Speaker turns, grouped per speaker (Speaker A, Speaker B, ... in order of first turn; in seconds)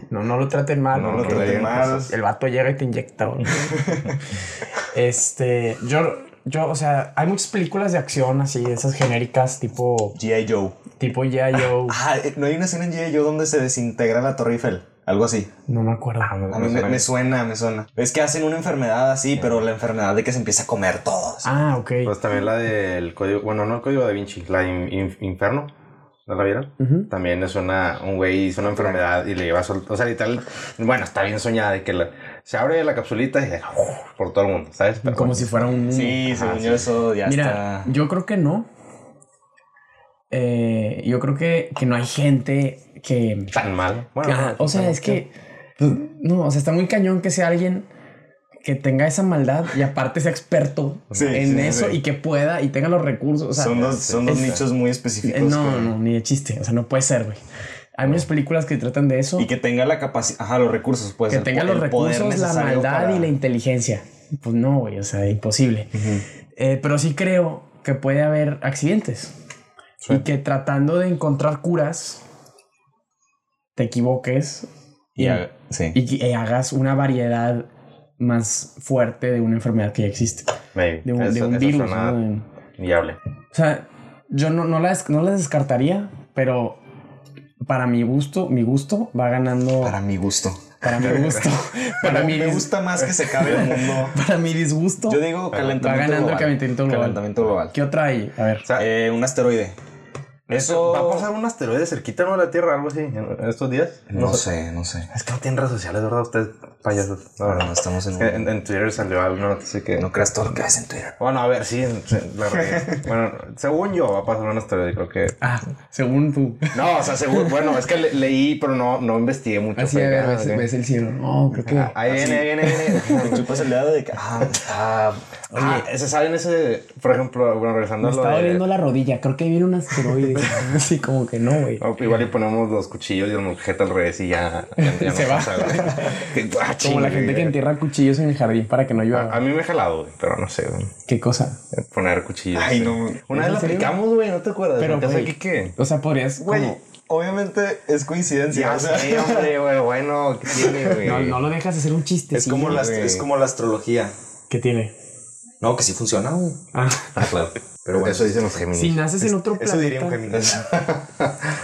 Speaker A: 0.1-3.8, 4.9-10.2, 11.0-12.0, 15.7-16.4, 21.4-22.1, 26.8-27.1, 35.0-36.3, 37.2-38.7, 40.3-43.5, 44.2-47.9, 48.6-54.6, 55.2-57.4, 58.0-59.5, 61.3-65.9, 66.5-69.3, 70.1-72.2, 73.8-77.7, 78.2-80.5, 81.0-82.5, 83.5-86.8, 87.7-90.0, 90.8-92.7, 93.4-95.2, 95.8-98.6, 115.4-116.8, 119.8-122.0, 122.7-123.3, 125.5-125.9, 128.0-131.8, 134.8-136.1, 136.8-139.4, 141.1-141.6, 143.3-143.9, 144.8-146.8, 151.0-152.8, 154.5-154.9, 156.7-157.2, 158.7-160.2
Speaker B: 0.9-2.0, 16.2-17.1, 19.4-19.6, 22.0-25.7, 26.3-35.6, 36.2-36.9, 43.5-45.2, 51.1-51.8, 53.8-54.6, 80.8-82.2, 82.8-83.2, 100.5-104.4, 105.1-110.1, 111.2-115.4, 116.7-120.7, 121.7-123.6, 125.5-128.6, 131.8-137.6, 139.1-140.9, 141.7-145.8, 148.5-151.4, 152.6-153.3, 157.1-159.1, 160.3-161.3
Speaker C: 1.0-2.1, 3.6-4.2, 10.1-10.8, 11.6-15.5, 16.5-21.7, 28.8-29.0, 35.9-37.9, 51.1-52.0, 53.5-55.9, 59.4-63.3, 65.9-66.2, 75.2-76.0, 89.8-91.5, 92.0-94.2, 95.1-97.7, 98.8-99.8, 100.5-101.3, 104.1-105.1, 107.4-108.5, 110.0-111.2, 112.5-113.0, 122.0-125.2, 135.8-136.2, 142.5-143.2, 146.4-149.5, 150.5-151.2, 152.3-154.1, 155.6-156.6, 157.8-158.6, 159.2-160.9